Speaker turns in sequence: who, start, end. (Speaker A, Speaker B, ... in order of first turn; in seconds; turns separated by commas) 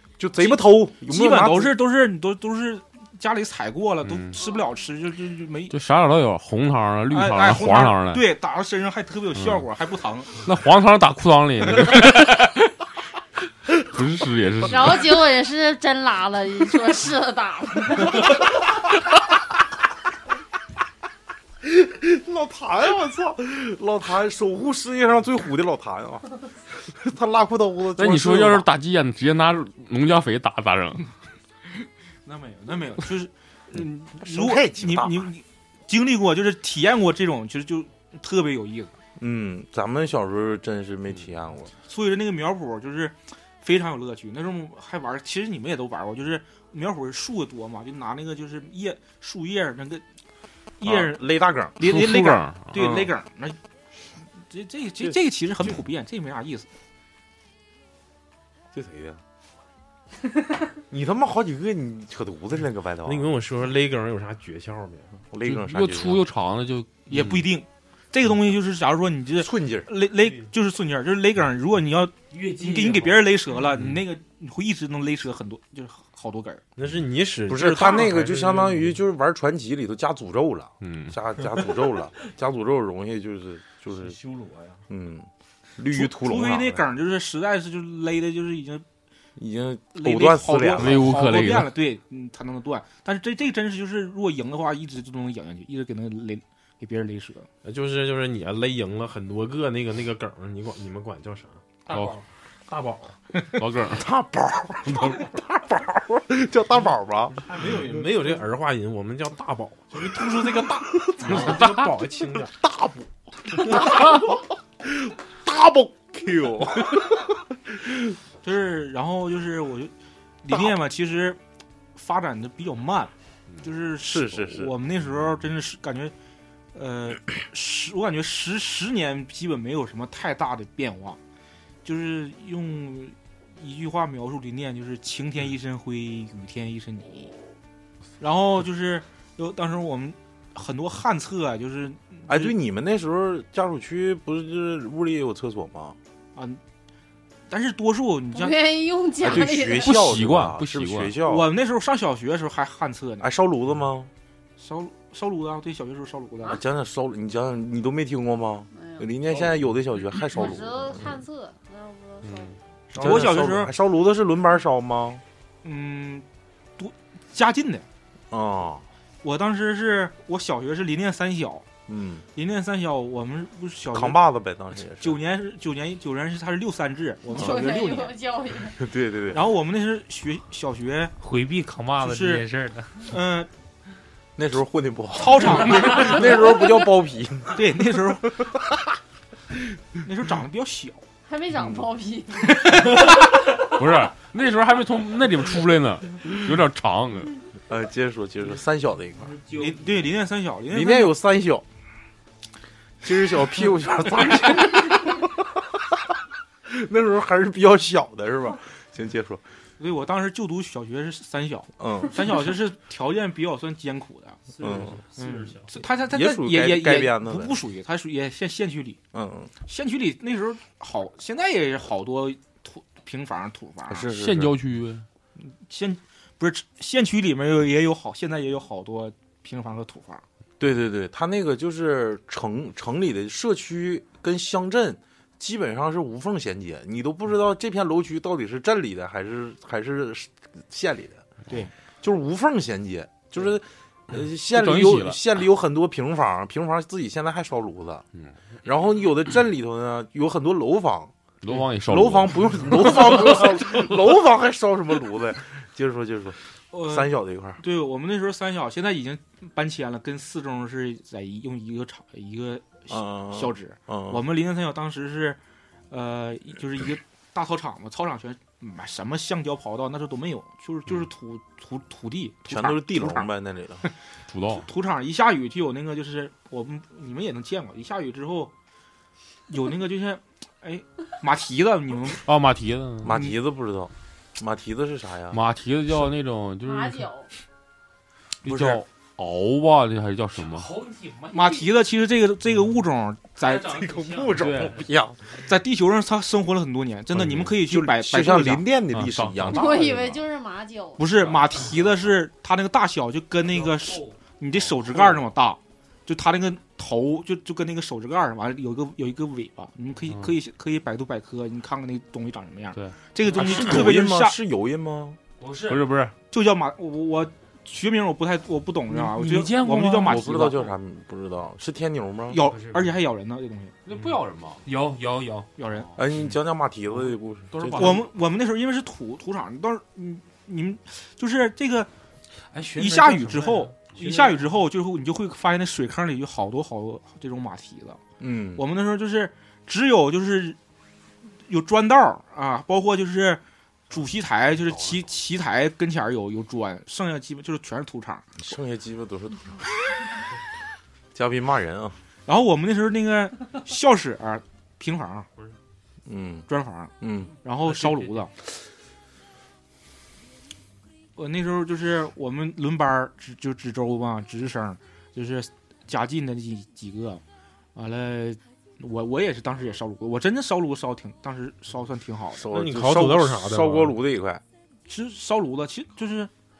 Speaker A: 0.2-1.8, Speaker B: 0.4-5.7, Speaker C: 4.0-4.3, Speaker C: 5.7-8.2, Speaker B: 7.1-10.3, Speaker C: 10.4-12.7, Speaker C: 13.7-15.1, Speaker D: 14.6-18.3, Speaker A: 21.6-28.7, Speaker C: 27.9-31.1, Speaker B: 32.2-38.9, Speaker A: 34.1-35.3, Speaker A: 39.2-41.7, Speaker B: 41.9-50.0, Speaker B: 50.8-53.6, Speaker A: 50.8-51.7, Speaker C: 51.8-52.7, Speaker A: 52.7-53.1, Speaker B: 54.3-56.7, Speaker A: 58.7-59.2, Speaker A: 60.9-63.3, Speaker E: 63.0-65.2, Speaker A: 65.3-66.2, Speaker C: 65.4-67.4, Speaker B: 67.1-76.6, Speaker A: 69.4-69.9, Speaker F: 72.3-73.2, Speaker C: 73.7-74.0, Speaker E: 76.8-79.0, Speaker A: 77.5-84.2, Speaker C: 80.8-81.2, Speaker A: 84.9-86.8, Speaker B: 85.9-88.8, Speaker A: 89.4-91.2, Speaker B: 89.9-97.5, Speaker C: 90.8-91.7, Speaker E: 97.6-101.6, Speaker C: 101.9-102.2, Speaker E: 102.7-103.2, Speaker C: 103.5-104.1, Speaker A: 103.9-107.4, Speaker E: 107.3-112.5, Speaker A: 111.2-111.6, Speaker A: 112.5-118.0, Speaker B: 118.4-119.9, Speaker B: 120.4-121.4, Speaker B: 122.0-126.1, Speaker A: 124.0-124.7, Speaker B: 126.7-131.2, Speaker B: 131.8-137.3, Speaker B: 138.2-142.5, Speaker A: 142.3-146.0, Speaker B: 146.3-146.6, Speaker B: 147.5-148.6, Speaker D: 148.3-150.0, Speaker A: 149.2-151.5, Speaker C: 149.8-151.2, Speaker B: 151.2-153.3, Speaker A: 153.2-154.1, Speaker B: 154.6-156.6, Speaker A: 156.4-161.1, Speaker D: 158.7-159.1, Speaker D: 160.2-162.5, Speaker C: 162.2-162.6, Speaker A: 162.9-165.2, Speaker B: 162.9-163.7, Speaker B: 165.6-166.2, Speaker B: 166.8-167.8, Speaker A: 168.3-168.8, Speaker B: 169.2-171.7, Speaker A: 171.9-172.2, Speaker B: 172.3-174.2, Speaker A: 173.9-175.2, Speaker B: 175.0-178.2, Speaker D: 177.3-178.9, Speaker A: 178.8-179.4, Speaker B: 179.3-181.1, Speaker F: 181.2-183.1, Speaker B: 182.0-182.4, Speaker B: 183.0-183.5, Speaker A: 184.4-187.6, Speaker B: 185.1-186.4, Speaker B: 187.5-188.3, Speaker A: 188.4-188.7, Speaker B: 190.0-191.1, Speaker D: 191.2-193.0, Speaker A: 191.5-191.8, Speaker B: 192.5-193.0, Speaker C: 193.0-197.3, Speaker A: 197.7-199.3, Speaker F: 199.2-200.0, Speaker B: 199.5-201.1, Speaker A: 200.7-201.6, Speaker A: 203.0-206.0, Speaker A: 206.7-209.4, Speaker B: 209.8-214.4, Speaker A: 211.8-212.3, Speaker F: 214.6-215.7, Speaker A: 214.6-215.0, Speaker B: 215.2-219.0, Speaker A: 216.1-217.6, Speaker A: 219.1-219.5, Speaker B: 219.7-224.1, Speaker A: 223.9-224.5, Speaker C: 224.1-225.1, Speaker B: 225.4-230.2, Speaker A: 230.6-241.2, Speaker A: 242.0-248.0, Speaker C: 244.4-245.2, Speaker A: 248.6-251.1, Speaker C: 251.4-253.6, Speaker A: 251.8-257.6, Speaker B: 256.7-265.4, Speaker A: 262.9-264.2, Speaker B: 265.9-273.3, Speaker A: 272.5-273.9, Speaker C: 274.3-274.6, Speaker B: 274.6-278.5, Speaker B: 279.5-282.2, Speaker C: 282.2-283.2, Speaker A: 283.0-285.4, Speaker C: 285.3-287.1, Speaker D: 286.6-287.3, Speaker C: 288.4-290.7, Speaker B: 288.5-288.8, Speaker F: 290.4-291.7, Speaker B: 291.3-293.7, Speaker F: 293.4-294.8, Speaker A: 293.5-295.2, Speaker C: 294.3-294.8, Speaker B: 295.4-298.7, Speaker A: 297.4-300.0, Speaker C: 298.9-300.1, Speaker D: 299.5-301.3, Speaker B: 301.0-314.4, Speaker F: 303.4-304.2, Speaker F: 312.7-313.5, Speaker A: 313.3-315.2, Speaker F: 315.4-315.9, Speaker C: 315.7-316.1, Speaker B: 316.3-320.7, Speaker F: 318.9-320.3, Speaker A: 320.0-322.4, Speaker B: 322.3-323.7, Speaker F: 322.4-323.0, Speaker C: 323.9-324.6, Speaker F: 323.9-325.9, Speaker B: 325.6-325.9, Speaker A: 326.0-328.0, Speaker C: 327.5-328.0, Speaker B: 327.7-331.9, Speaker F: 332.5-334.5, Speaker B: 332.7-338.0, Speaker A: 338.2-338.6, Speaker B: 338.5-340.6, Speaker B: 341.5-348.3, Speaker A: 348.4-349.6, Speaker A: 351.1-352.0, Speaker B: 352.2-355.3, Speaker A: 356.1-356.5, Speaker B: 356.5-356.9, Speaker A: 357.0-357.3, Speaker B: 357.4-358.3, Speaker F: 357.8-358.2, Speaker B: 361.1-367.2, Speaker B: 367.7-372.4, Speaker A: 372.3-374.4, Speaker E: 372.5-374.0, Speaker B: 374.9-376.3